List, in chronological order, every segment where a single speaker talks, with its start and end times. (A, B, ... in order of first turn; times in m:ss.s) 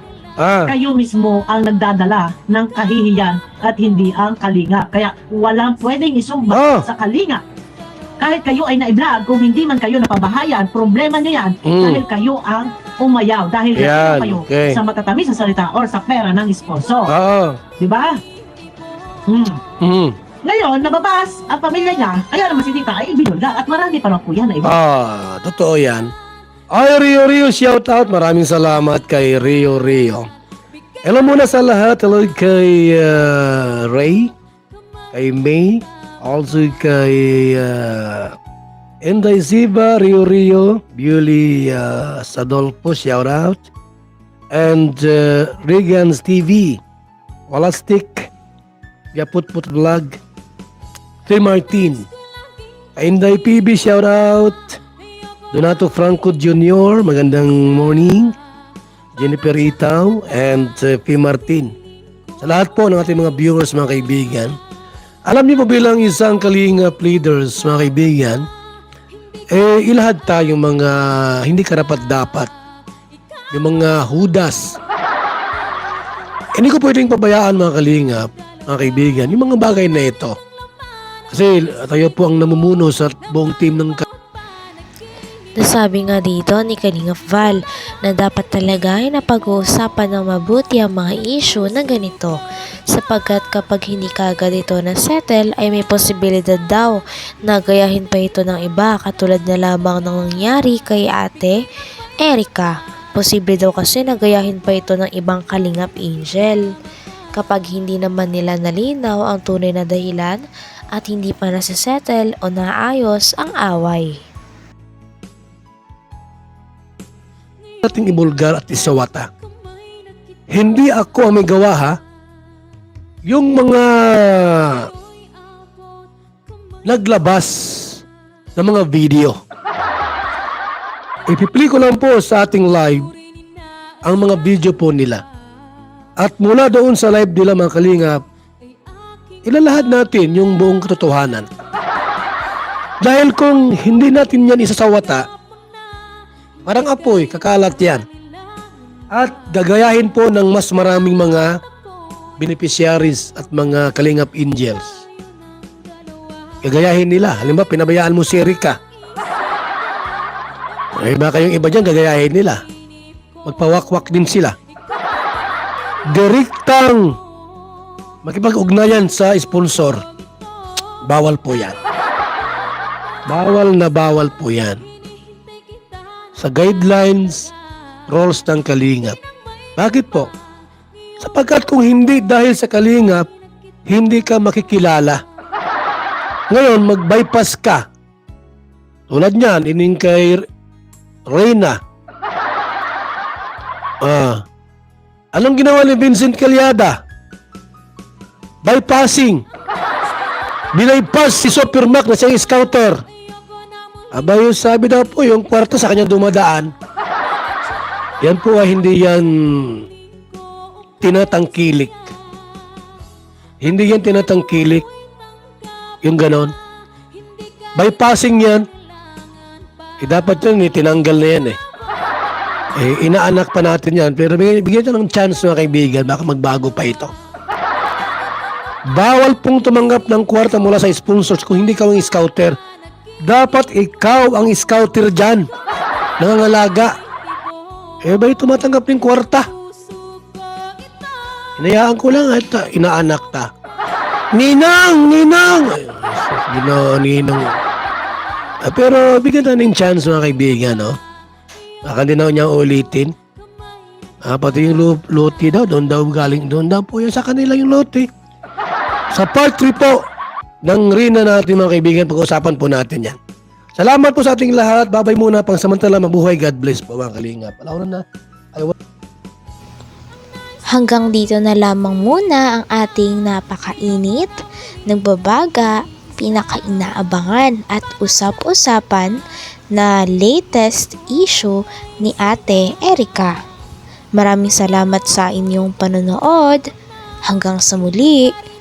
0:00.4-0:00.7 A
0:00.7-0:07.4 B
0:06.5-0:06.8 A
0:08.2-0:17.1 B
0:11.6-0:12.0 A
0:13.8-0:14.8 A
0:17.1-0:17.6 A
0:17.8-0:18.2 B
0:19.3-0:19.6 B
0:19.8-0:20.2 A
0:20.4-0:24.7 B
0:24.6-0:26.1 A
0:26.7-0:30.3 A
0:31.0-0:34.3 A
0:35.1-0:38.4 A
0:39.0-0:43.6 A
0:44.5-0:46.8 A
0:47.5-0:48.3 A
0:49.1-0:50.2 A
0:51.3-0:52.1 A
0:53.0-0:54.8 A
0:55.5-0:58.4 A
0:59.2-1:01.7 A
1:02.4-1:04.6 A
1:05.3-1:08.4 A
1:09.5-1:12.5 A
1:13.5-1:14.8 A
1:16.6-1:20.4 A
1:21.3-1:24.1 A
1:25.6-1:32.3 C
1:32.9-1:41.6 C
1:42.2-1:46.6 C
1:47.4-1:50.4 C
1:50.9-1:54.1 C
1:57.8-1:59.3 A
2:00.5-2:02.0 A
2:03.3-2:04.9 A
2:06.8-2:08.0 A
2:08.6-2:09.4 A
2:11.3-2:13.1 A
2:14.0-2:15.2 A
2:16.2-2:18.2 A
2:19.4-2:21.5 A
2:23.0-2:25.3 A
2:26.6-2:28.0 A
2:29.1-2:31.6 A
2:32.4-2:35.0 A
2:36.6-2:38.8 A
2:40.9-2:42.6 A
2:43.4-2:44.6 A
2:46.0-2:47.2 A
2:48.2-2:50.0 A
2:51.1-2:51.8 A
2:53.3-2:54.8 A
2:56.4-2:57.5 A
2:58.1-2:59.2 A
2:59.8-3:00.3 A
3:01.2-3:03.3 A
3:03.9-3:05.2 A
3:06.5-3:07.8 A
3:09.1-3:10.4 A
3:11.3-3:11.8 A
3:14.0-3:14.4 A
3:15.3-3:17.0 A
3:18.6-3:19.4 A
3:20.7-3:23.0 A
3:24.1-3:26.7 A
3:28.2-3:29.9 A
3:31.0-3:32.1 A
3:33.6-3:34.9 A
3:36.0-3:36.5 A
3:37.8-3:38.7 A
3:40.0-3:41.6 A
3:42.8-3:47.1 A
3:48.9-3:52.6 A
3:53.2-3:55.5 A
3:56.2-3:56.9 A
3:58.0-3:59.5 A
4:01.6-4:03.5 A
4:04.3-4:07.6 A
4:08.6-4:11.0 A
4:11.9-4:13.1 A
4:14.2-4:18.1 A
4:19.1-4:20.0 A
4:20.6-4:23.2 A
4:23.8-4:28.8 A
4:30.7-4:34.4 C
4:34.9-4:39.1 C
4:39.7-4:43.4 C
4:44.2-4:46.6 C
4:47.3-4:48.3 C